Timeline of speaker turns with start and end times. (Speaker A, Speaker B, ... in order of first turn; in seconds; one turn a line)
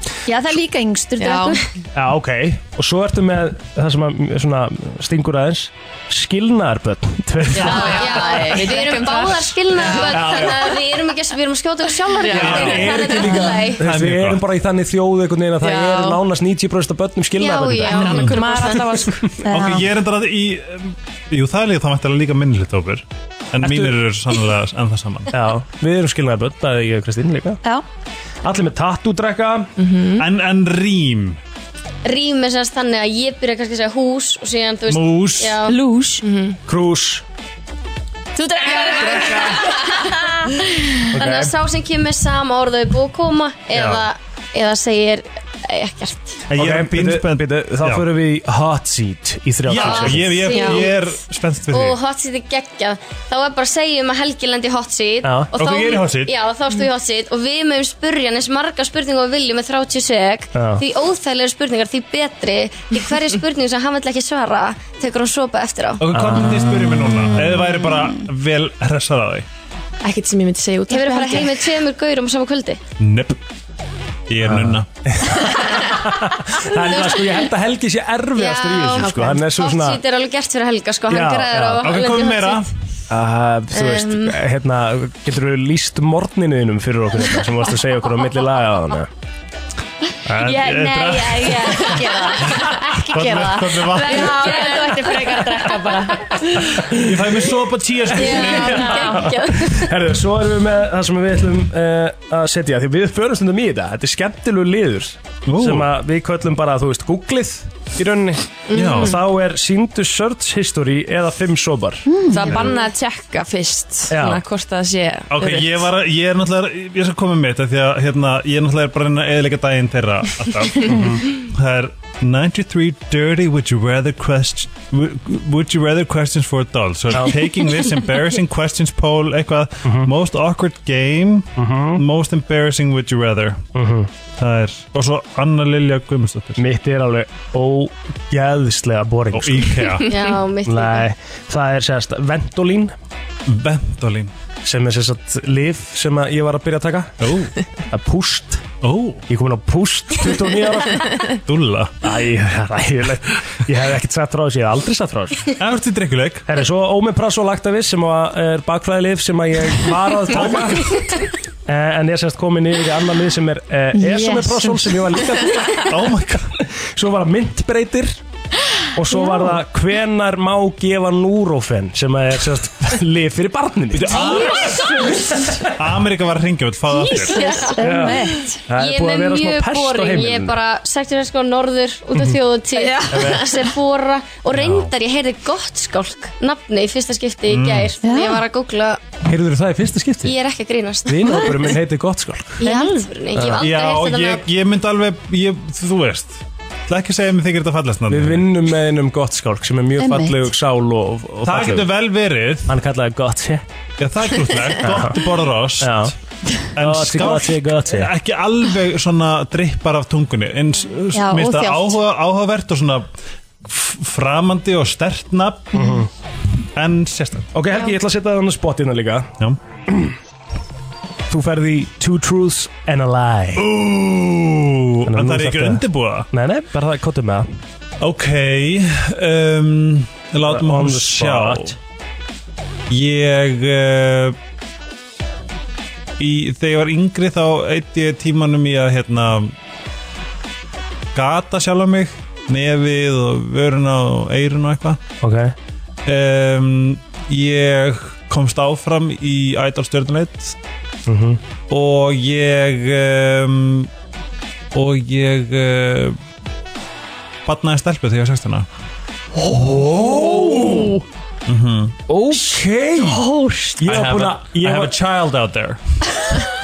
Speaker A: 0.3-1.6
Speaker B: 1.2-1.6
Speaker C: 1.9-8.1
Speaker B: 7.5-10.4
Speaker D: 7.7-13.8
Speaker C: 10.0-10.6
Speaker B: 12.1-13.2
Speaker C: 12.3-18.2
Speaker E: 12.3-14.4
Speaker B: 15.6-16.2
Speaker D: 17.4-18.9
Speaker B: 17.7-19.4
Speaker A: 19.4-19.9
Speaker E: 19.5-25.3
Speaker C: 23.6-24.0
Speaker C: 25.3-27.6
Speaker C: 28.4-29.7
Speaker B: 29.8-30.3
Speaker E: 30.2-31.4
Speaker D: 32.0-35.8
Speaker E: 34.9-35.6
Speaker A: 35.6-36.2
Speaker B: 36.2-36.6
Speaker C: 36.7-37.2
Speaker A: 38.4-40.8
Speaker C: 38.9-39.6
Speaker C: 41.1-41.5
Speaker D: 41.1-46.4
Speaker E: 43.7-44.0
Speaker E: 46.5-48.0
Speaker C: 46.5-50.5
Speaker E: 49.7-52.0
Speaker D: 49.7-51.1
Speaker B: 50.5-50.8
Speaker D: 51.7-66.0
Speaker C: 55.2-55.5
Speaker E: 55.5-56.3
Speaker C: 60.5-60.8
Speaker E: 66.0-69.5
Speaker C: 66.1-66.8
Speaker B: 70.0-71.7
Speaker D: 70.9-72.8
Speaker E: 73.0-73.4
Speaker E: 74.3-74.8
Speaker C: 74.4-80.0
Speaker D: 76.9-77.2
Speaker D: 78.4-82.7
Speaker C: 81.1-81.8
Speaker E: 81.5-82.7
Speaker C: 83.1-89.1
Speaker D: 83.7-84.3
Speaker E: 90.2-94.6
Speaker A: 90.4-96.4
Speaker D: 94.1-95.2
Speaker C: 96.8-97.1
Speaker E: 96.8-99.1
Speaker D: 98.1-99.9
Speaker A: 98.2-99.3
Speaker C: 98.3-112.0
Speaker E: 105.5-105.9
Speaker E: 108.7-109.2
Speaker A: 112.0-112.5
Speaker B: 112.3-115.9
Speaker C: 114.1-114.4
Speaker E: 115.3-133.6
Speaker C: 120.9-121.2
Speaker C: 127.1-127.5
Speaker C: 129.8-130.1
Speaker C: 131.6-132.0
Speaker C: 133.7-134.1
Speaker E: 134.4-136.6
Speaker C: 136.6-140.0
Speaker E: 139.3-140.1
Speaker D: 140.0-141.1
Speaker C: 140.7-142.9
Speaker E: 143.5-144.3
Speaker C: 144.6-147.2
Speaker E: 147.2-147.5
Speaker C: 147.9-148.6
Speaker E: 148.8-149.2
Speaker C: 149.3-151.2
Speaker E: 151.4-151.9
Speaker C: 152.0-155.5
Speaker E: 155.6-156.5
Speaker C: 156.5-161.0
Speaker E: 160.3-161.2
Speaker C: 161.7-166.1
Speaker A: 163.9-164.9
Speaker E: 165.9-166.6
Speaker C: 166.6-168.2
Speaker C: 168.9-175.7
Speaker A: 169.1-169.5
Speaker E: 173.9-175.1
Speaker E: 175.7-177.5
Speaker A: 177.1-178.6
Speaker C: 177.8-180.6
Speaker D: 178.7-189.0
Speaker A: 182.7-183.5
Speaker C: 183.1-183.5
Speaker E: 184.5-184.9
Speaker E: 187.5-187.9
Speaker A: 188.0-188.4
Speaker C: 189.2-190.3
Speaker D: 190.2-191.6
Speaker C: 191.1-192.6
Speaker D: 192.6-194.4
Speaker A: 192.6-192.9
Speaker C: 193.3-193.6
Speaker E: 193.6-198.4
Speaker C: 198.1-201.9
Speaker A: 200.0-200.5
Speaker E: 201.4-202.7
Speaker C: 202.7-203.7
Speaker E: 204.0-206.1
Speaker C: 204.8-205.2
Speaker C: 205.8-206.1
Speaker E: 206.7-213.1
Speaker C: 206.8-208.1
Speaker A: 211.1-212.0
Speaker E: 213.6-215.9
Speaker C: 215.7-216.1
Speaker E: 216.7-217.5
Speaker C: 217.5-219.3
Speaker C: 219.9-220.1
Speaker C: 221.3-223.7
Speaker E: 223.6-226.3
Speaker C: 225.0-227.5
Speaker E: 228.0-231.7
Speaker C: 230.4-231.8
Speaker E: 232.9-234.4
Speaker E: 236.2-239.5
Speaker E: 241.1-245.0
Speaker C: 245.2-245.5
Speaker E: 246.1-250.6
Speaker C: 251.1-251.4
Speaker E: 251.7-253.9
Speaker E: 254.7-256.2
Speaker E: 257.4-258.7
Speaker C: 259.3-261.0
Speaker E: 261.5-262.0
Speaker C: 262.1-263.2
Speaker A: 263.1-263.8
Speaker C: 263.8-264.9
Speaker E: 263.8-266.4